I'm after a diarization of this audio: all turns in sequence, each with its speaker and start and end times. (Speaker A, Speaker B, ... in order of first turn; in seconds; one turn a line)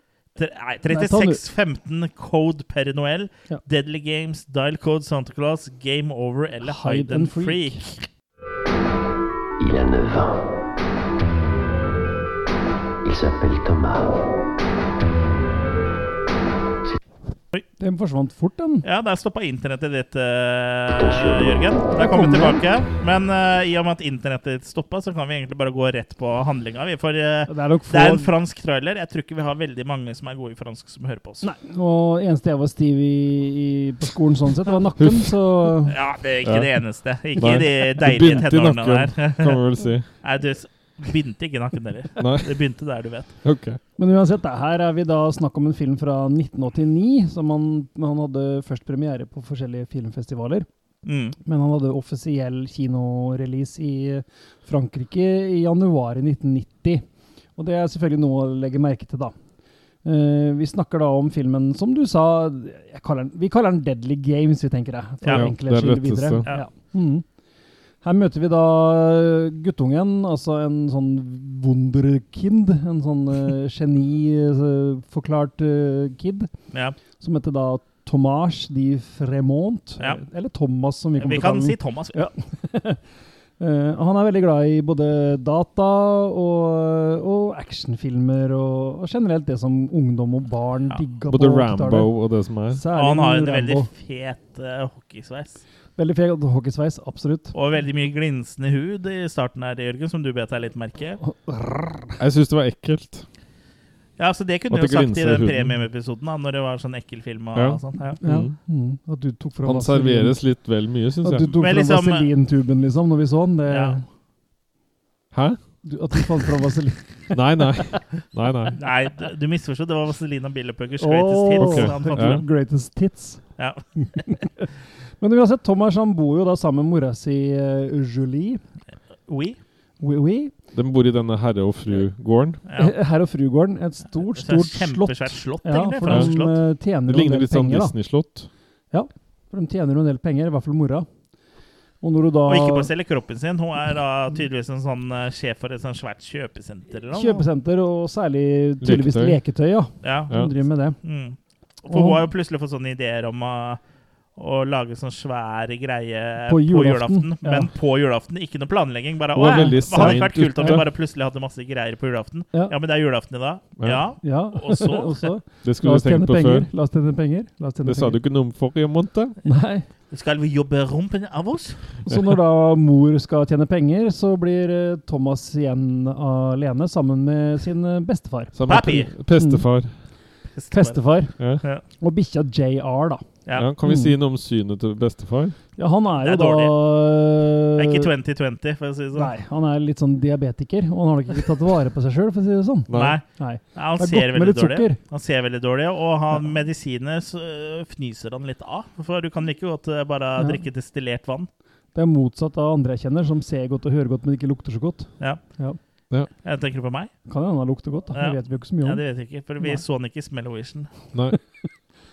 Speaker A: 0.3-8.0
Speaker B: 0.9-1.4
Speaker B: 6.6-7.8
Speaker C: 9.6-10.4
Speaker C: 13.0-14.2
Speaker B: 17.8-18.8
Speaker A: 18.8-31.5
Speaker C: 20.9-21.7
Speaker B: 21.9-22.6
Speaker B: 27.5-28.3
Speaker B: 31.4-36.0
Speaker D: 35.0-35.3
Speaker A: 35.9-39.6
Speaker D: 36.4-36.7
Speaker D: 37.4-40.1
Speaker A: 40.2-43.3
Speaker D: 42.2-42.6
Speaker D: 43.4-43.8
Speaker B: 44.0-50.7
Speaker A: 51.0-51.4
Speaker B: 51.4-57.0
Speaker B: 57.5-59.3
Speaker B: 60.0-67.2
Speaker A: 65.2-65.5
Speaker D: 65.3-66.5
Speaker B: 68.0-76.5
Speaker A: 76.7-77.0
Speaker B: 77.2-83.0
Speaker A: 81.2-82.2
Speaker B: 83.6-92.2
Speaker D: 91.3-92.8
Speaker B: 92.7-93.9
Speaker A: 92.9-95.6
Speaker B: 96.0-97.5
Speaker A: 97.5-101.2
Speaker B: 101.2-102.2
Speaker D: 102.2-103.2
Speaker A: 104.2-108.2
Speaker D: 104.7-105.7
Speaker D: 107.5-108.5
Speaker B: 108.2-110.4
Speaker D: 109.6-111.5
Speaker B: 111.2-114.0
Speaker A: 111.6-112.3
Speaker A: 113.7-114.0
Speaker D: 115.3-115.6
Speaker B: 115.8-118.0
Speaker D: 117.3-118.8
Speaker A: 118.8-122.4
Speaker B: 121.0-123.4
Speaker D: 121.6-122.4
Speaker A: 123.6-124.3
Speaker B: 124.0-124.7
Speaker B: 125.2-128.6
Speaker A: 129.3-129.6
Speaker B: 130.0-130.5
Speaker D: 130.7-132.6
Speaker A: 132.7-132.9
Speaker B: 132.8-137.9
Speaker A: 134.3-136.5
Speaker D: 137.1-138.5
Speaker B: 138.9-141.1
Speaker B: 142.0-142.9
Speaker A: 142.5-147.4
Speaker B: 147.1-151.0
Speaker D: 148.8-149.4
Speaker A: 150.0-150.3
Speaker A: 151.0-153.8
Speaker B: 151.9-152.2
Speaker A: 154.3-165.3
Speaker B: 156.4-157.7
Speaker D: 159.3-160.9
Speaker B: 159.4-160.8
Speaker D: 163.8-164.0
Speaker B: 164.2-168.2
Speaker D: 165.6-166.7
Speaker D: 167.8-169.4
Speaker B: 169.4-169.9
Speaker A: 170.1-171.9
Speaker B: 172.0-178.6
Speaker D: 178.5-179.9
Speaker A: 178.7-179.1
Speaker B: 179.3-179.7
Speaker A: 180.5-181.0
Speaker B: 180.7-181.3
Speaker B: 182.0-183.2
Speaker D: 183.6-185.6
Speaker B: 183.8-184.1
Speaker B: 185.8-188.1
Speaker A: 186.2-186.8
Speaker A: 187.8-189.3
Speaker B: 189.2-195.0
Speaker D: 192.9-193.2
Speaker A: 192.9-201.5
Speaker B: 200.4-200.6
Speaker B: 201.9-205.8
Speaker A: 206.4-207.1
Speaker B: 207.3-209.0
Speaker A: 208.1-210.9
Speaker D: 211.1-211.4